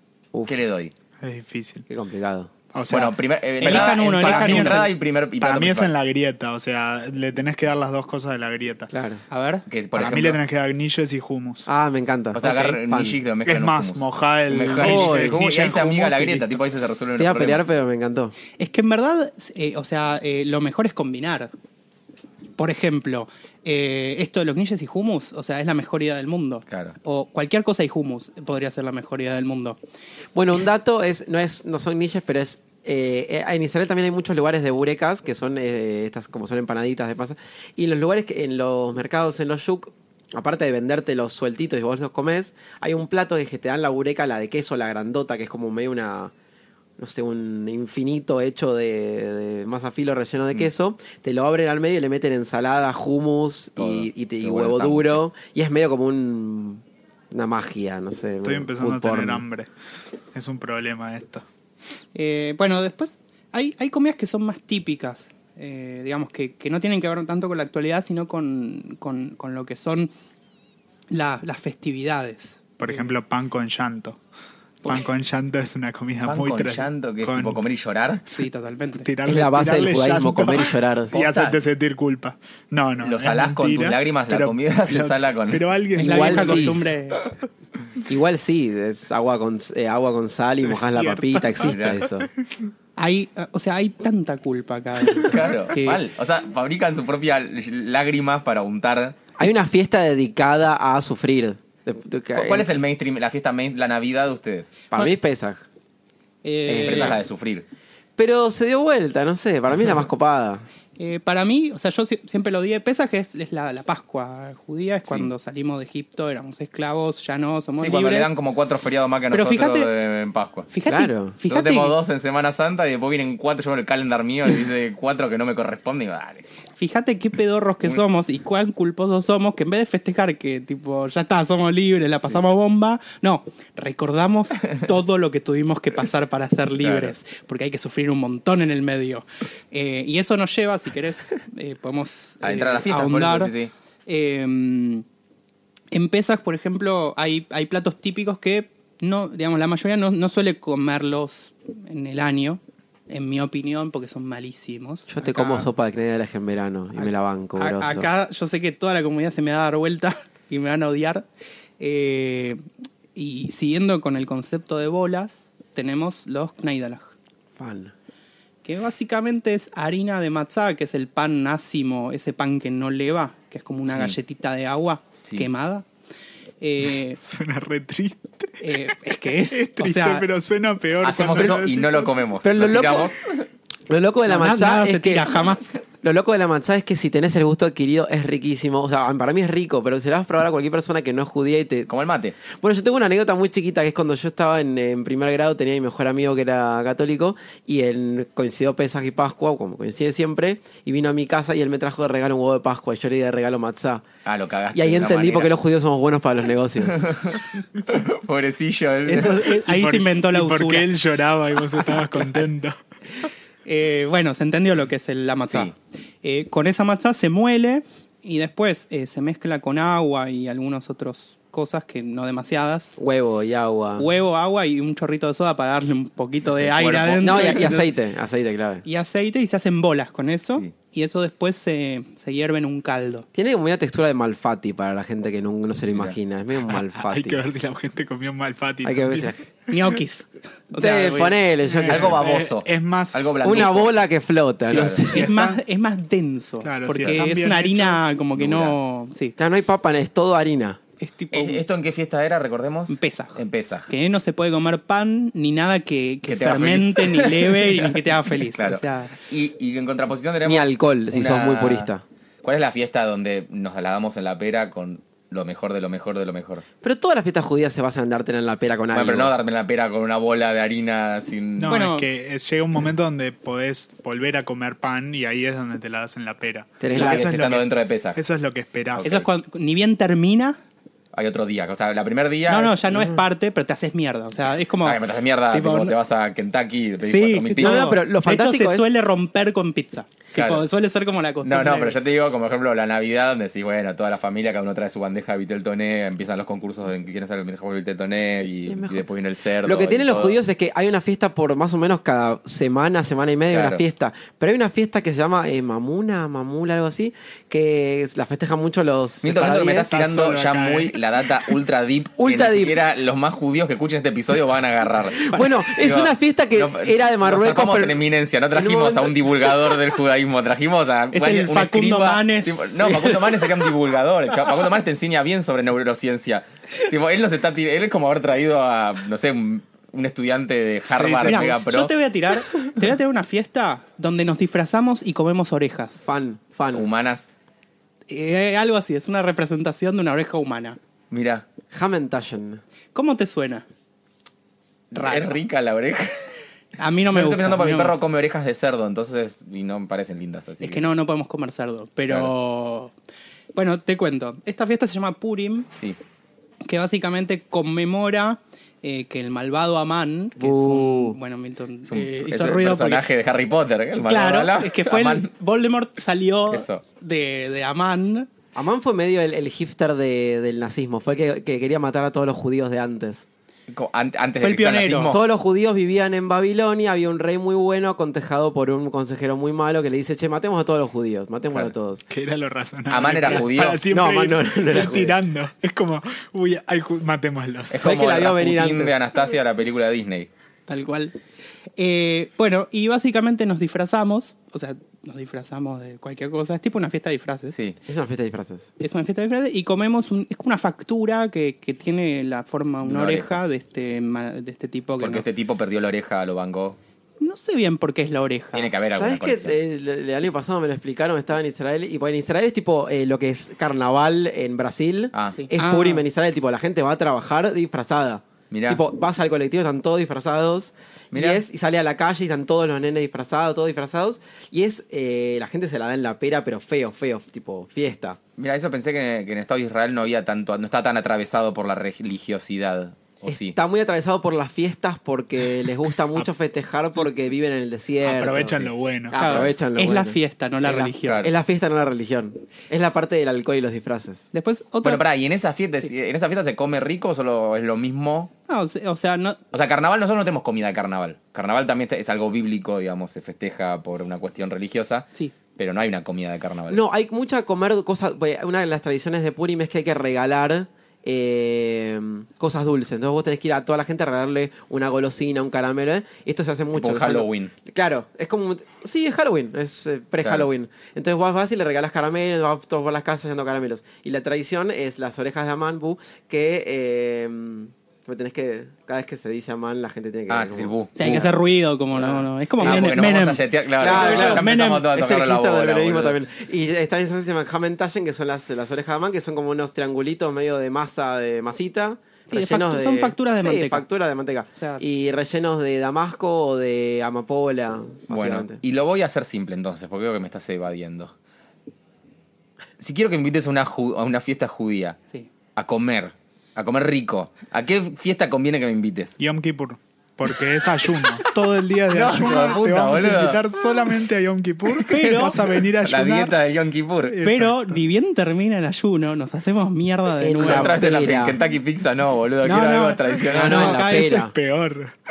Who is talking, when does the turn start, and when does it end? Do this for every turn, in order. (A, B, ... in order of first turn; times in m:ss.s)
0:00.5-0:00.9 A
0:01.2-0:01.9 B
0:01.9-0:02.5 C
0:02.7-0:08.9 B
0:02.9-0:05.9 A
0:03.6-0:04.9 D
0:08.9-0:09.2 C
0:09.3-0:09.6 D
0:09.7-0:10.4 A
0:09.9-0:11.7 B
0:11.6-0:13.2 C
0:12.3-0:17.7 A
0:13.4-0:16.6 B
0:14.8-0:15.4 C
0:17.2-0:18.3 C
0:18.6-0:21.5 D
0:22.6-0:29.8 D
0:26.7-0:27.0 A
0:30.3-0:46.3 C
0:47.0-0:59.4 C
0:53.8-0:55.2 A
0:58.4-0:59.7 B
1:00.3-1:01.4 B
1:02.1-1:10.1 D
1:11.1-1:13.1 D
1:12.8-1:14.2 B
1:14.8-1:17.6 B
1:16.2-1:18.2 A
1:18.3-1:19.1 D
1:19.0-1:26.9 B
1:19.2-1:21.2 C
1:21.2-1:21.5 A
1:23.0-1:25.6 A
1:26.0-1:27.2 D
1:26.0-1:26.9 C
1:28.1-1:32.3 C
1:30.6-1:32.2 B
1:31.6-1:32.0 A
1:33.0-1:36.0 D
1:35.2-1:39.2 A
1:39.4-1:42.7 C
1:42.4-1:44.8 A
1:44.9-1:45.6 C
1:46.4-1:47.2 D
1:46.7-1:47.2 C
1:46.7-1:47.6 A
1:48.2-1:50.6 C
1:51.0-1:58.3 D
1:57.8-2:00.7 A
1:59.3-1:59.9 D
2:00.7-2:02.0 D
2:00.8-2:01.4 C
2:01.5-2:06.4 A
2:06.8-2:23.5 D
2:16.8-2:17.1 A
2:22.4-2:23.7 A
2:24.0-2:25.0 D
2:25.9-2:35.7 D
2:35.1-2:38.1 C
2:36.9-2:41.2 D
2:41.8-2:42.6 D
2:43.1-2:47.1 D
2:47.6-2:47.9 C
2:48.6-2:55.8 D
2:53.9-2:54.2 A
2:56.6-2:57.2 D
2:57.2-3:02.2 B
2:58.6-3:00.2 D
3:01.0-3:03.4 A
3:02.4-3:03.1 C
3:03.9-3:05.4 C
3:04.3-3:05.8 D
3:06.0-3:11.9 C
3:11.9-3:12.4 A
3:12.4-3:24.0 C
3:24.2-3:25.5 A
3:24.7-3:27.1 C
3:26.9-3:29.5 A
3:29.1-3:30.9 D
3:29.4-3:32.8 B
3:33.6-3:43.0 D
3:35.5-3:35.7 A
3:43.0-3:44.1 C
3:44.0-3:47.9 D
3:46.6-3:47.8 A
3:47.2-3:48.8 C
3:48.8-3:53.2 D
3:53.3-3:57.4 C
3:56.7-3:59.3 B
3:58.8-3:59.4 C
3:59.7-4:01.4 D
4:00.7-4:02.2 C
4:01.7-4:03.7 B
4:01.9-4:04.0 A
4:03.4-4:05.3 C
4:04.7-4:05.0 A
4:04.7-4:05.6 B
4:05.1-4:09.3 D
4:06.6-4:08.1 B
4:08.4-4:08.8 A
4:09.4-4:10.8 C
4:11.0-4:11.6 D
4:11.3-4:13.9 A
4:12.9-4:19.2 D
4:16.3-4:21.9 A
4:20.4-4:22.0 C
4:22.4-4:26.6 A
4:26.8-4:29.3 C
4:28.9-4:31.8 A
4:31.6-4:39.1 B
4:31.7-4:32.1 D
4:36.8-4:37.3 C
4:36.9-4:38.2 A
4:38.9-4:39.2 A
4:39.0-4:40.6 D
4:41.1-4:42.8 A
4:42.5-4:46.0 D
4:42.9-4:43.2 C
4:44.8-4:47.9 A
4:47.0-4:52.0 D
4:47.6-4:48.9 C
4:50.3-4:50.6 A
4:51.4-5:00.4 A
4:58.7-4:59.0 C
4:59.6-5:09.9 C
5:03.5-5:03.8 A
5:09.2-5:31.9 A
5:09.4-5:11.0 B
5:12.2-5:12.8 C
5:15.2-5:18.0 C
5:18.5-5:19.8 C
5:21.1-5:23.1 D
5:22.9-5:23.4 C
5:31.0-5:31.5 B
5:31.0-5:36.0 D
5:36.0-5:36.9 C
5:36.7-5:37.3 A
5:38.1-5:40.8 D
5:41.1-5:41.4 A
5:41.7-5:42.6 C
5:42.9-5:43.6 D
5:44.9-5:46.3 A
5:44.9-5:45.3 D
5:46.8-5:47.9 D
5:47.1-5:50.9 A
5:50.6-5:52.9 D
5:53.5-5:55.7 D
5:55.7-5:56.0 A
5:56.6-6:03.0 D
6:00.4-6:01.2 C
6:01.9-6:05.3 A
6:04.0-6:08.3 D
6:06.5-6:06.8 A
6:08.5-6:13.2 C
6:13.7-6:15.2 A
6:14.4-6:15.2 D
6:15.1-6:22.0 C
6:22.1-6:27.9 B
6:22.9-6:23.8 A
6:23.9-6:25.1 C
6:27.7-6:30.3 A
6:27.7-6:28.9 C
6:30.7-6:31.2 D
6:31.8-6:37.5 D
6:37.9-6:38.7 C
6:38.8-6:45.2 D
6:42.8-6:43.4 A
6:45.0-6:46.8 A
6:47.2-6:48.7 D
6:48.5-6:49.6 A
6:48.8-7:08.2 C
6:55.1-6:55.5 A
6:55.4-6:56.0 D
6:58.5-6:58.8 A
7:01.1-7:01.4 A
7:08.4-7:13.6 A
7:13.3-7:24.3 C
7:18.0-7:19.2 B
7:19.2-7:21.2 D
7:19.2-7:19.5 A
7:21.1-7:21.3 A
7:24.3-7:25.0 D
7:24.8-7:28.3 A
7:28.5-7:29.4 D
7:29.5-7:36.8 A
7:36.7-8:01.3 C
7:46.7-7:47.5 A
8:00.3-8:01.3 A
8:01.0-8:04.9 D
8:02.0-8:02.9 C
8:02.6-8:06.2 A
8:03.8-8:18.6 C
8:12.3-8:13.8 D
8:14.6-8:14.8 D
8:18.1-8:21.1 A
8:22.8-8:25.0 A
8:25.6-8:29.2 A
8:29.2-8:36.4 B
8:31.9-8:33.5 A
8:34.8-8:37.2 A
8:34.9-8:35.4 D
8:37.1-8:37.7 B
8:37.2-8:40.8 D
8:40.2-8:41.4 C
8:40.4-8:43.8 A
8:42.4-8:44.3 D
8:43.2-8:44.3 C
8:43.9-8:44.9 B